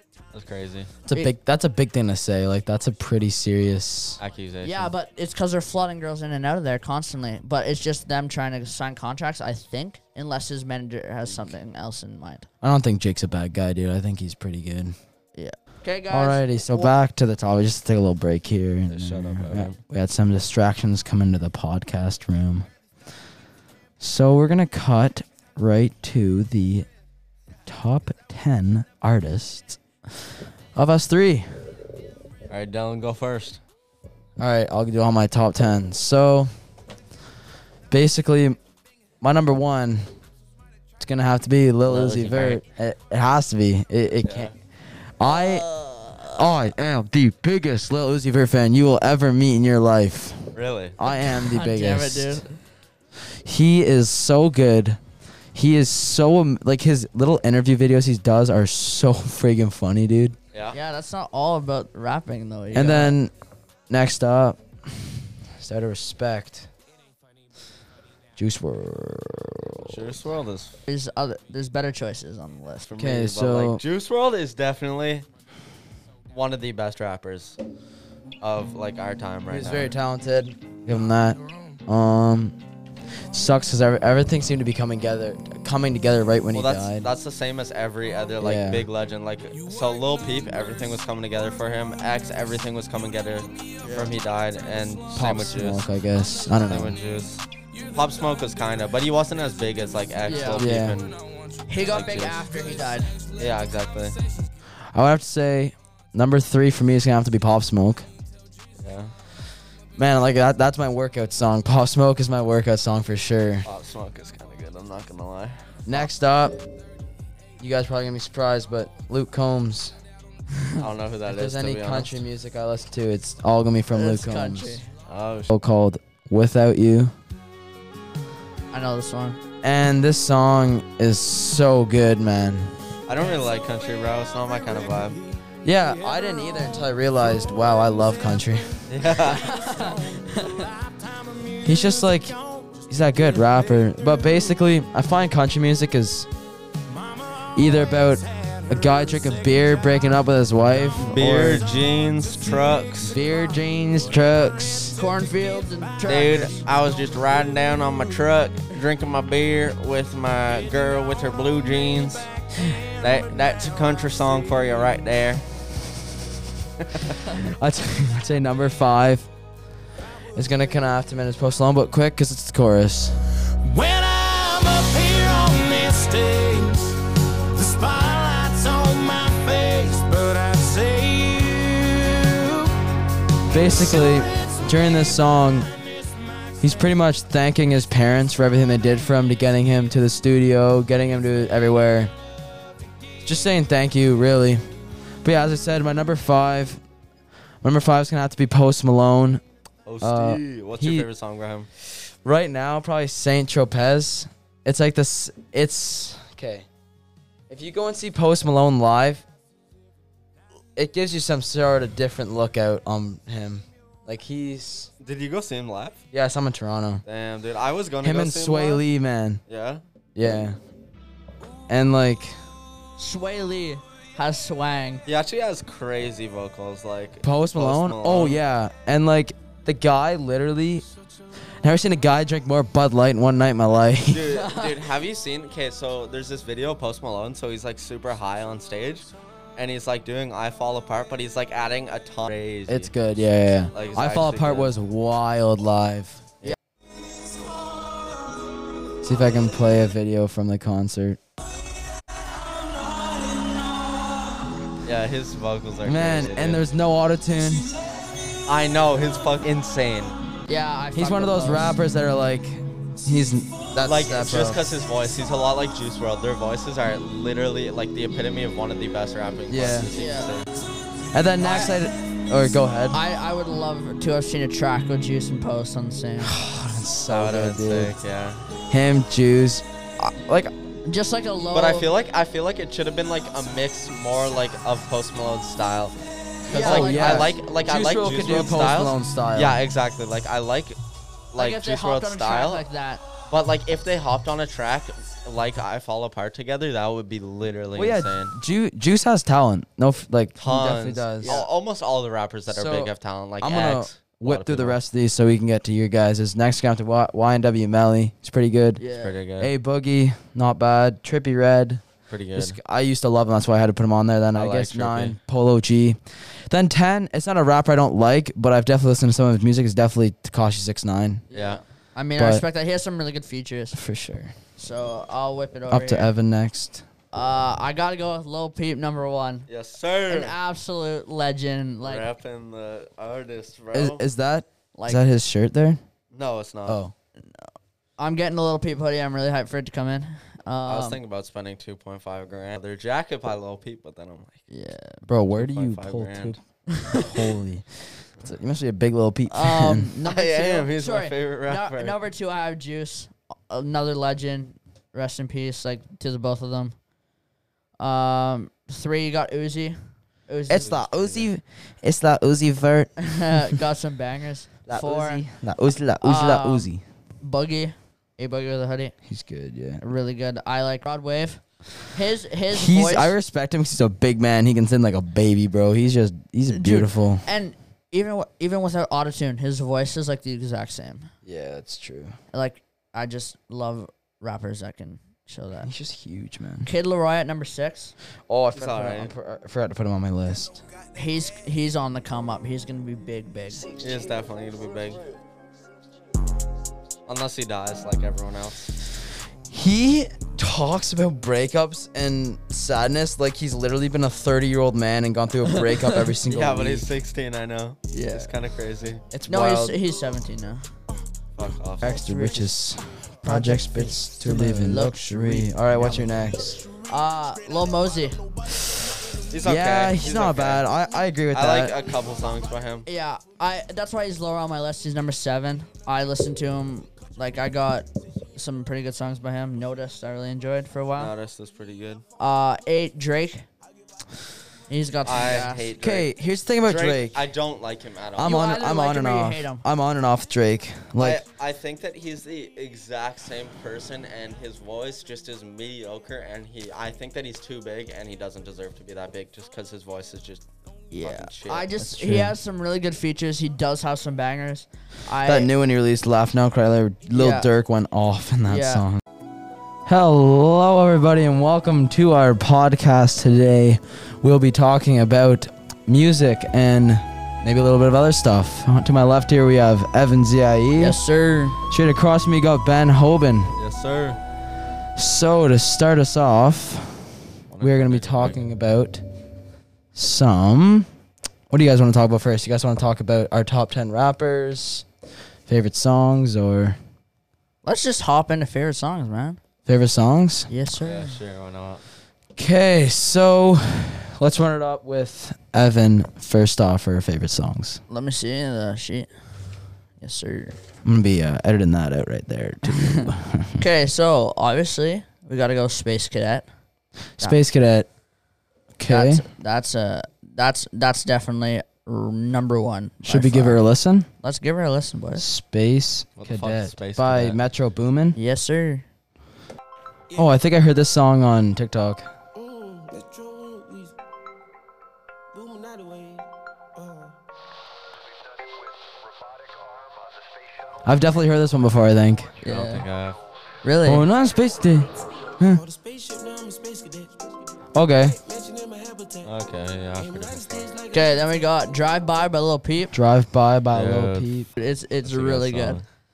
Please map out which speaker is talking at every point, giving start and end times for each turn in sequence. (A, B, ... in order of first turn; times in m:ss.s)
0:00.3-0:00.9 A
0:01.1-0:04.2 B
0:04.2-0:04.9 A
0:04.6-0:12.5 C
0:12.6-0:15.0 B
0:15.4-0:16.9 C
0:16.1-0:22.7 B
0:18.9-0:19.8 A
0:24.0-0:26.9 B
0:27.7-0:31.6 B
0:32.5-0:33.6 A
0:34.4-0:36.5 B
0:37.9-0:38.6 B
0:39.2-0:40.1 B
0:41.0-0:44.5 B
0:41.9-0:42.6 A
0:44.2-0:44.5 A
0:45.2-0:45.7 B
0:45.2-0:46.5 C
0:46.3-0:52.4 B
0:50.5-0:51.0 A
0:51.1-0:52.6 C
0:53.4-0:55.0 B
0:55.5-1:00.4 B
1:00.7-1:03.2 C
1:02.7-1:03.3 B
1:03.9-1:06.7 B
1:08.4-1:10.1 B
1:09.8-1:10.8 A
1:10.9-1:12.9 C
1:12.9-1:15.3 A
1:13.0-1:13.8 B
1:16.3-1:17.6 A
1:18.4-1:20.0 A
1:19.5-1:22.6 B
1:23.3-1:27.1 B
1:26.5-1:35.9 A
1:28.4-1:28.9 B
1:33.8-1:34.1 C
1:35.2-1:37.0 B
1:36.6-1:41.2 A
1:40.2-1:40.7 C
1:40.6-1:41.0 B
1:41.3-1:41.6 D
1:41.7-1:43.1 C
1:41.9-1:42.5 A
1:42.5-1:43.4 D
1:43.4-1:44.2 A
1:44.9-1:48.1 B
1:48.8-1:49.1 A
1:50.0-1:53.7 B
1:53.6-1:56.1 A
1:55.9-1:56.6 B
1:57.6-2:00.0 B
2:00.8-2:02.1 A
2:01.3-2:04.8 B
2:03.9-2:04.9 C
2:05.1-2:05.5 A
2:05.5-2:07.1 B
2:08.7-2:09.4 C
2:09.6-2:12.7 B
2:13.1-2:15.2 A
2:15.6-2:18.8 B
2:18.9-2:19.5 A
2:19.2-2:20.7 C
2:21.6-2:26.3 B
2:27.5-2:31.6 B
2:31.0-2:33.2 A
2:33.0-2:35.0 B
2:35.0-2:36.6 C
2:36.1-2:42.3 A
2:43.0-2:45.4 A
2:46.8-2:47.2 A
2:47.3-2:49.3 B
2:50.4-2:53.2 B
2:53.6-2:57.0 D
2:57.5-3:02.8 D
3:03.5-3:04.8 D
3:03.5-3:05.7 B
3:06.6-3:12.1 B
3:13.2-3:14.6 B
3:15.2-3:16.8 B
3:17.6-3:19.4 B
3:19.9-3:21.7 A
3:20.0-3:21.1 B
3:22.2-3:26.7 B
3:27.5-3:29.2 B
3:30.8-3:34.9 B
3:35.0-3:36.0 A
3:36.1-3:37.0 B
3:37.0-3:38.8 A
3:38.0-3:39.4 B
3:39.5-3:39.8 A
3:40.2-3:40.6 B
3:41.7-3:42.4 B
3:43.0-3:45.0 C
3:45.1-3:48.4 A
3:47.2-3:50.8 B
3:51.6-3:54.3 B
3:54.1-4:03.1 A
3:54.3-3:54.8 C
4:02.7-4:06.3 B
4:03.7-4:04.7 A
4:09.0-4:11.2 B
4:14.8-4:16.6 A
4:15.8-4:17.7 B
4:18.5-4:20.2 A
4:20.5-4:21.8 C
4:21.0-4:24.6 B
4:23.8-4:30.5 A
4:29.5-4:29.9 B
4:29.9-4:30.3 C
4:31.1-4:33.0 B
4:31.4-4:31.7 C
4:32.9-4:36.4 C
4:36.2-4:37.9 B
4:37.1-4:38.4 A
4:38.7-4:40.5 B
4:40.9-4:41.9 C
4:41.5-4:46.0 A
4:46.5-4:50.8 A
4:46.5-4:47.4 C
4:46.6-4:49.6 B
4:51.3-4:52.6 A
4:51.4-4:53.0 C
4:53.3-4:58.3 A
4:57.8-5:01.4 B
5:00.4-5:04.8 A
5:01.2-5:01.5 C
5:02.5-5:08.8 B
5:08.8-5:09.1 C
5:08.9-5:09.5 A
5:09.4-5:11.8 B
5:12.1-5:12.6 A
5:12.4-5:21.2 B
5:14.4-5:15.2 A
5:21.3-5:23.8 C
5:21.3-5:21.6 A
5:22.2-5:22.4 B
5:23.7-5:24.3 B
5:24.6-5:26.1 C
5:25.7-5:26.8 B
5:27.1-5:29.5 C
5:29.5-5:30.4 A
5:30.1-5:32.1 C
5:31.8-5:34.0 A
5:33.7-5:35.8 B
5:34.8-5:35.0 C
5:36.1-5:36.8 A
5:36.7-5:36.9 B
5:38.0-5:41.0 C
5:40.7-5:44.4 A
5:44.5-5:45.0 C
5:45.1-5:49.9 B
5:45.3-5:46.4 A
5:46.7-5:47.1 C
5:49.3-5:56.8 C
5:50.0-5:52.0 A
5:57.8-6:01.3 C
6:00.5-6:03.6 B
6:00.6-6:00.9 A
6:03.0-6:05.2 C
6:04.7-6:06.8 B
6:06.0-6:06.7 C
6:07.2-6:08.9 C
6:09.1-6:09.8 B
6:09.8-6:13.1 C
6:12.5-6:17.3 B
6:16.5-6:21.1 C
6:21.2-6:22.2 B
6:22.3-6:25.7 C
6:25.6-6:26.7 B
6:26.6-6:27.9 C
6:28.3-6:30.6 B
6:28.5-6:29.1 A
6:31.0-6:33.7 C
6:33.8-6:35.0 A
6:37.1-6:38.7 A
6:39.5-6:46.9 B
6:45.6-6:46.0 C
6:46.3-6:49.0 A
6:47.9-6:48.3 C
6:49.1-6:49.8 B
6:49.3-6:50.7 C
6:51.4-6:52.0 A
6:51.8-6:56.6 B
6:51.9-6:52.5 C
6:53.2-6:56.1 C
6:56.9-6:58.2 C
6:58.5-7:01.8 B
6:59.3-7:00.7 A
7:01.3-7:02.9 A
7:02.9-7:11.1 C
7:11.0-7:12.0 A
7:12.2-7:13.5 C
7:14.7-7:15.7 C
7:15.0-7:16.1 A
7:15.8-7:17.3 B
7:16.6-7:18.4 A
7:18.2-7:21.2 B
7:18.2-7:19.6 C
7:21.0-7:30.5 A
7:30.9-7:35.5 C
7:31.0-7:31.7 A
7:31.8-7:32.4 B
7:35.2-7:39.0 B
7:37.1-7:37.5 C
7:38.5-7:38.8 C
7:39.9-7:51.0 B
7:50.8-7:51.6 C
7:51.7-7:53.6 B
7:53.6-7:54.2 A
7:55.0-7:59.0 B
7:57.5-7:58.4 A
7:59.9-8:00.9 B
8:01.5-8:04.9 B
8:05.5-8:06.8 B
8:07.6-8:09.4 C
8:09.7-8:10.5 B
8:10.5-8:11.2 C
8:10.8-8:11.8 A
8:12.4-8:17.8 B
8:17.9-8:19.1 C
8:20.0-8:20.6 C
8:20.8-8:23.6 B
8:22.6-8:26.5 C
8:27.2-8:27.9 B
8:28.8-8:29.2 B
8:28.9-8:33.6 C
8:33.0-8:34.1 B
8:34.2-8:35.3 C
8:35.2-8:38.2 B
8:36.2-8:37.4 A
8:38.2-8:38.8 C
8:40.2-8:42.1 B
8:42.4-8:43.9 E
8:45.3-8:47.1 E
8:50.8-8:52.3 B
8:52.4-8:52.8 C
8:52.4-8:53.2 A
8:53.6-8:54.1 C
8:53.8-8:55.6 B
8:55.6-8:57.3 E
8:57.7-8:58.2 B
8:58.1-8:59.3 E
8:59.2-9:00.7 A
9:00.0-9:01.4 E
9:00.9-9:03.0 C
9:02.9-9:04.5 B
9:03.7-9:04.3 A
9:04.6-9:05.8 C
9:05.0-9:05.8 A